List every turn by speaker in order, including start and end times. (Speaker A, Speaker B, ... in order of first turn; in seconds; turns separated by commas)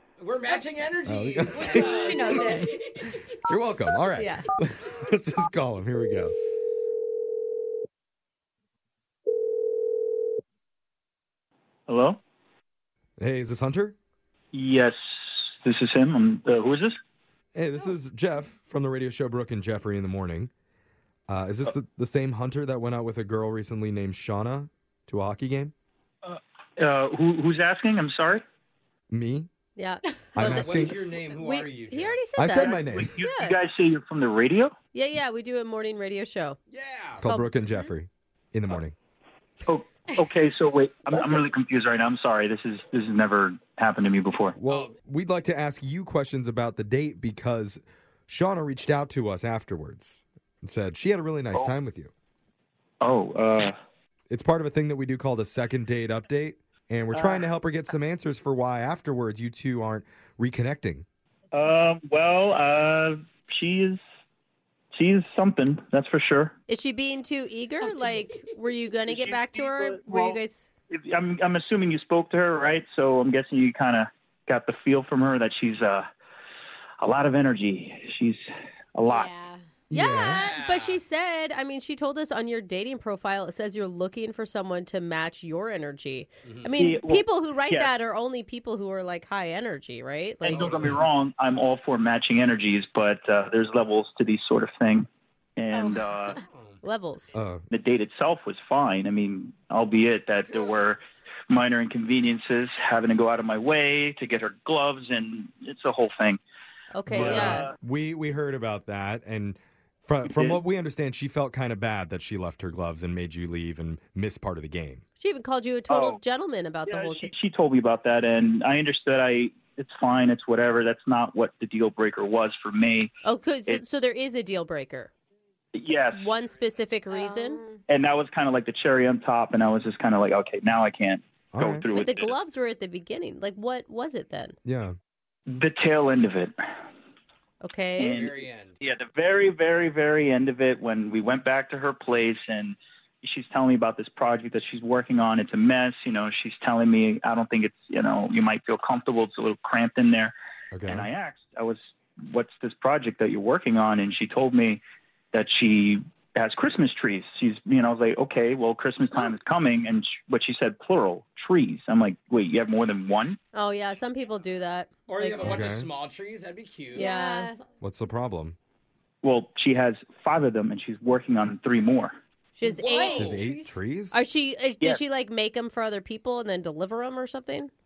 Speaker A: 0.2-3.2, Speaker B: 1.1-2.7, Speaker C: 1.8-2.6, Speaker D: 2.1-2.6, Speaker B: 3.4-6.3, Speaker D: 4.2-4.4, Speaker E: 11.9-12.2, Speaker B: 13.2-13.9, Speaker E: 14.5-16.9, Speaker B: 17.5-20.5, Speaker B: 21.3-25.7, Speaker E: 26.2-28.4, Speaker B: 29.1-29.5, Speaker D: 29.8-33.6, Speaker B: 30.3-30.9, Speaker A: 30.4-32.4, Speaker B: 32.4-33.1, Speaker E: 32.5-34.7, Speaker D: 34.9-36.6, Speaker A: 36.7-37.2, Speaker B: 37.2-38.9, Speaker D: 37.2-37.9, Speaker E: 39.6-44.5, Speaker B: 44.6-52.1, Speaker E: 53.0-53.7, Speaker B: 54.3-61.0, Speaker E: 57.1-57.5, Speaker E: 61.5-64.0, Speaker E: 64.9-66.5, Speaker D: 66.7-70.7, Speaker E: 69.1-70.4, Speaker E: 70.9-76.1, Speaker E: 77.0-78.4, Speaker E: 78.9-79.3, Speaker C: 79.0-79.6, Speaker B: 79.9-80.4, Speaker D: 79.9-90.7, Speaker A: 80.2-81.0, Speaker A: 86.4-86.7, Speaker E: 86.8-87.9, Speaker E: 90.4-96.4, Speaker A: 90.5-90.9, Speaker C: 95.7-96.4, Speaker A: 96.4-96.8, Speaker D: 96.8-97.3, Speaker B: 97.3-97.6, Speaker E: 97.7-106.4, Speaker A: 100.5-100.7, Speaker D: 106.9-107.7, Speaker B: 107.1-115.0, Speaker E: 107.1-107.7, Speaker E: 110.2-110.6, Speaker D: 115.2-117.3, Speaker E: 115.9-116.2, Speaker E: 116.9-123.1, Speaker D: 123.2-125.1, Speaker E: 125.7-126.3, Speaker D: 126.1-127.6, Speaker C: 127.1-127.8, Speaker E: 127.9-132.3, Speaker B: 131.5-131.8, Speaker D: 131.9-134.6, Speaker B: 134.6-134.9, Speaker E: 135.5-136.5, Speaker D: 137.6-138.2, Speaker A: 138.0-138.8, Speaker E: 138.0-150.3, Speaker B: 150.7-151.1, Speaker E: 150.8-154.8, Speaker E: 155.3-163.4, Speaker D: 163.5-165.6, Speaker A: 165.1-167.1, Speaker B: 165.4-165.9, Speaker C: 166.9-167.7, Speaker D: 166.9-167.5, Speaker B: 167.8-168.6, Speaker E: 169.2-172.1, Speaker D: 172.5-173.3, Speaker A: 172.6-173.4, Speaker C: 172.8-173.8, Speaker B: 173.0-174.2, Speaker D: 174.1-177.7